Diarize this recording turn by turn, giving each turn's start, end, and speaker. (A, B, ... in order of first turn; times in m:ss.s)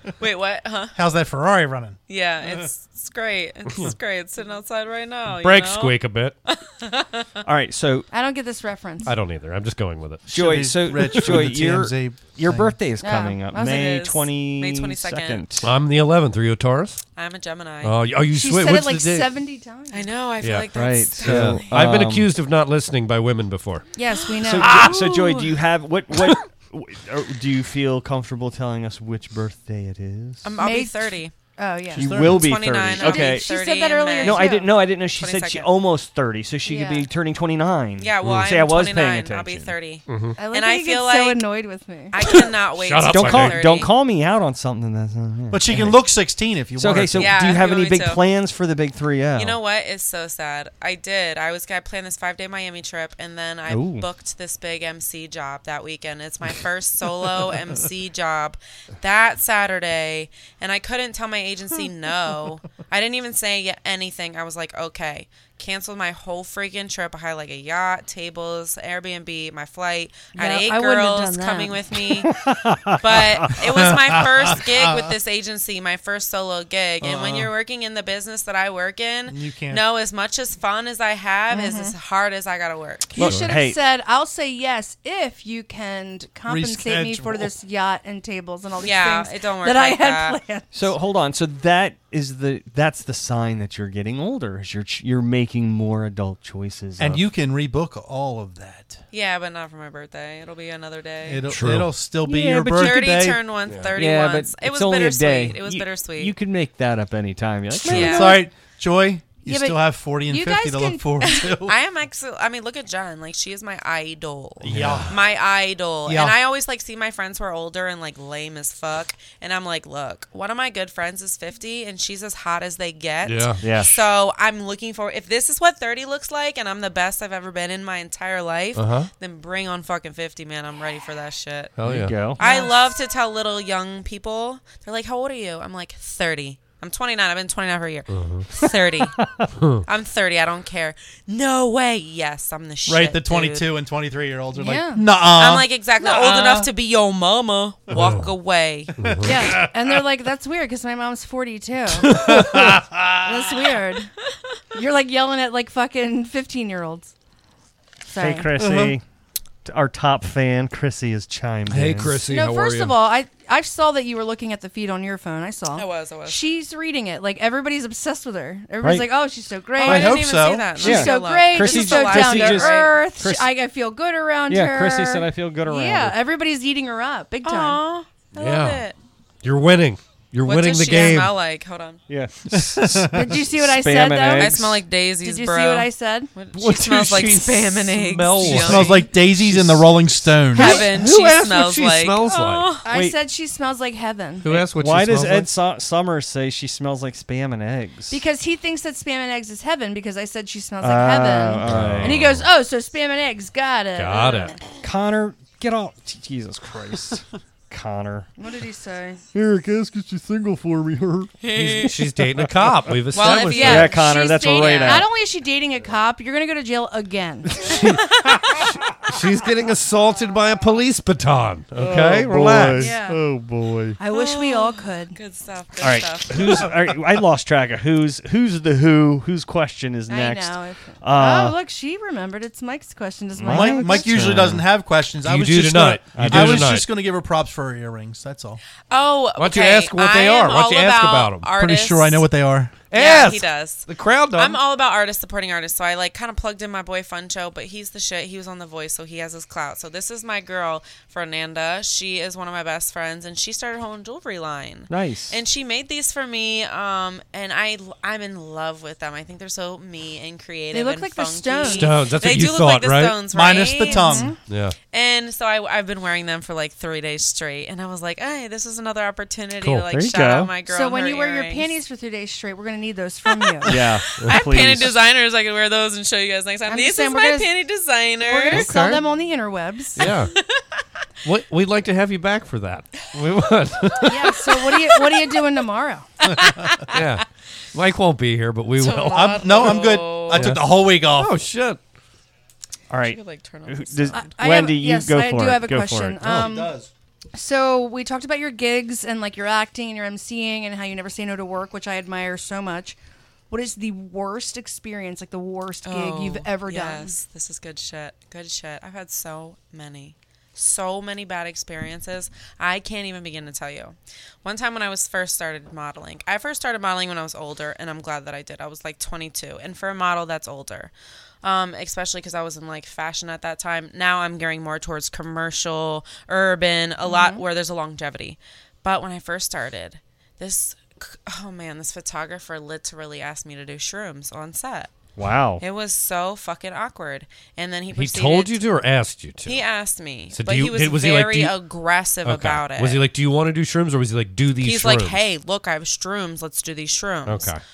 0:00.2-0:00.9 A
0:00.9-0:02.6 B
0:02.1-0:07.4 A
0:05.3-0:06.3 C
0:07.4-0:08.1 D
0:08.1-0:09.1 E
0:09.0-0:10.2 C
0:10.3-0:12.8 B
0:10.3-0:15.7 D
0:13.0-0:13.7 E
0:13.5-0:15.4 A
0:15.6-0:17.0 C
0:17.2-0:18.0 A
0:17.8-0:19.3 C
0:18.3-0:20.1 E
0:19.9-0:21.9 A
0:20.4-0:23.9 C
0:20.7-0:22.3 D
0:24.0-0:25.1 E
0:24.4-0:30.5 D
0:24.6-0:25.0 C
0:30.4-0:31.3 A
0:30.6-0:32.1 E
0:31.9-0:33.5 D
0:32.0-0:32.5 B
0:32.3-0:35.7 A
0:33.0-0:34.7 E
0:34.2-0:39.7 D
0:36.6-0:37.1 E
0:38.0-0:41.4 A
0:40.1-0:40.4 C
0:40.4-0:42.1 E
0:42.1-0:43.9 A
0:42.2-0:43.6 C
0:43.1-0:46.0 D
0:45.5-0:47.5 B
0:46.8-0:49.6 D
0:47.1-0:48.2 A
0:49.3-1:12.3 A
0:53.7-0:54.0 D
1:10.3-1:11.8 E
1:12.2-1:13.6 D
1:13.0-1:23.1 A
1:13.9-1:15.0 B
1:17.0-1:17.5 B
1:19.3-1:19.8 B
1:21.5-1:21.9 E
1:23.1-1:30.7 E
1:23.2-1:23.8 D
1:23.2-1:23.5 C
1:26.5-1:27.5 B
1:28.8-1:30.4 A
1:30.7-1:37.2 D
1:37.0-1:39.0 B
1:39.1-1:41.4 A
1:41.2-1:43.3 B
1:41.5-1:41.9 C
1:42.2-1:43.4 D
1:42.8-1:46.3 A
1:43.6-1:43.9 C
1:43.9-1:48.4 D
1:47.8-1:48.3 A
1:47.8-1:48.4 E
1:48.0-1:51.7 B
1:49.4-1:51.4 E
1:51.2-2:19.2 A
1:54.6-1:55.2 B
1:54.7-1:55.0 D
1:54.7-1:55.0 C
1:56.0-1:56.4 B
2:03.2-2:03.6 C
2:03.6-2:04.0 D
2:08.7-2:09.1 C
2:11.8-2:12.1 C
2:11.8-2:12.4 D
2:12.4-2:12.7 E
2:18.1-2:18.5 C
2:19.0-2:19.5 D
2:19.6-2:19.8 C
2:19.8-2:23.7 A
2:22.8-2:26.7 B
2:24.6-2:25.0 E
2:25.3-2:28.9 A
2:27.9-2:28.3 C
2:29.0-2:29.7 C
2:29.2-2:32.3 E
2:32.1-2:33.1 C
2:32.3-2:32.8 B
2:33.2-2:34.1 E
2:34.7-2:37.1 E
2:38.1-2:38.5 E
2:38.2-2:39.0 D
2:38.6-2:39.0 B
2:39.6-2:42.2 D
2:41.7-2:43.0 C
2:42.3-2:50.2 E
2:45.7-2:46.4 A
2:49.8-2:52.9 A
2:49.8-2:50.8 B
2:50.8-2:57.8 E
2:50.8-2:53.5 D
2:54.5-2:56.2 D
2:57.4-2:59.0 A
2:58.3-2:58.8 C
2:59.4-3:01.3 C
3:00.4-3:02.0 A
3:02.1-3:04.8 D
3:02.5-3:03.4 B
3:03.1-3:04.6 E
3:04.4-3:09.0 A
3:05.2-3:06.3 E
3:06.5-3:12.7 C
3:08.4-3:10.9 B
3:10.5-3:12.8 A
3:12.8-3:14.5 E
3:12.9-3:13.2 D
3:14.4-3:15.5 C
3:14.5-3:18.2 D
3:18.1-3:24.6 E
3:20.8-3:22.2 D
3:21.6-3:22.5 C
3:23.9-3:24.6 C
3:24.8-3:28.3 D
3:28.4-3:29.2 E
3:29.3-3:31.3 D
3:31.4-3:32.0 A
3:31.5-3:33.9 C
3:33.1-3:35.0 A
3:33.3-3:35.0 D
3:33.5-3:37.5 E
3:37.6-3:43.0 C
3:41.8-3:44.0 D
3:42.8-3:43.2 E
3:44.0-3:45.2 E
3:44.1-3:46.7 A
3:45.8-3:51.6 D
3:50.1-3:54.3 E
3:53.4-3:54.6 D
3:53.4-3:58.6 B
3:55.2-3:56.9 C
3:56.1-3:56.7 D
3:58.9-4:02.2 A
3:59.4-4:01.5 C
4:01.5-4:02.8 B
4:02.9-4:04.6 C
4:02.9-4:24.3 A
4:14.9-4:15.4 D
4:20.7-4:21.9 E
4:21.6-4:23.2 C
4:23.3-4:24.4 B
4:23.8-4:24.4 E
4:24.5-4:24.8 C
4:24.9-4:31.7 A
4:29.6-4:29.8 C
4:29.9-4:30.5 D
4:30.6-4:33.7 E
4:33.4-4:38.7 A
4:33.6-4:35.0 D
4:36.7-4:37.5 E
4:38.2-4:40.0 E
4:38.5-4:39.0 C
4:40.0-4:40.3 C
4:40.0-4:40.6 A
4:41.2-4:44.7 C
4:44.0-4:46.1 E
4:46.9-4:51.8 C
4:48.8-4:50.5 A
4:49.1-4:51.3 B
4:52.9-4:56.4 D
4:53.0-4:54.3 A
4:54.1-4:56.7 E
4:56.2-4:56.9 B
4:57.3-5:03.0 E
5:03.5-5:07.1 E
5:05.8-5:20.9 A
5:21.4-5:34.9 A
5:27.0-5:27.4 E
5:35.2-5:35.6 D
5:35.6-5:38.6 A
5:37.9-5:39.6 C
5:39.4-5:43.0 A
5:40.3-5:41.6 C
5:42.2-5:45.2 C
5:44.6-5:47.5 A
5:47.2-5:47.6 C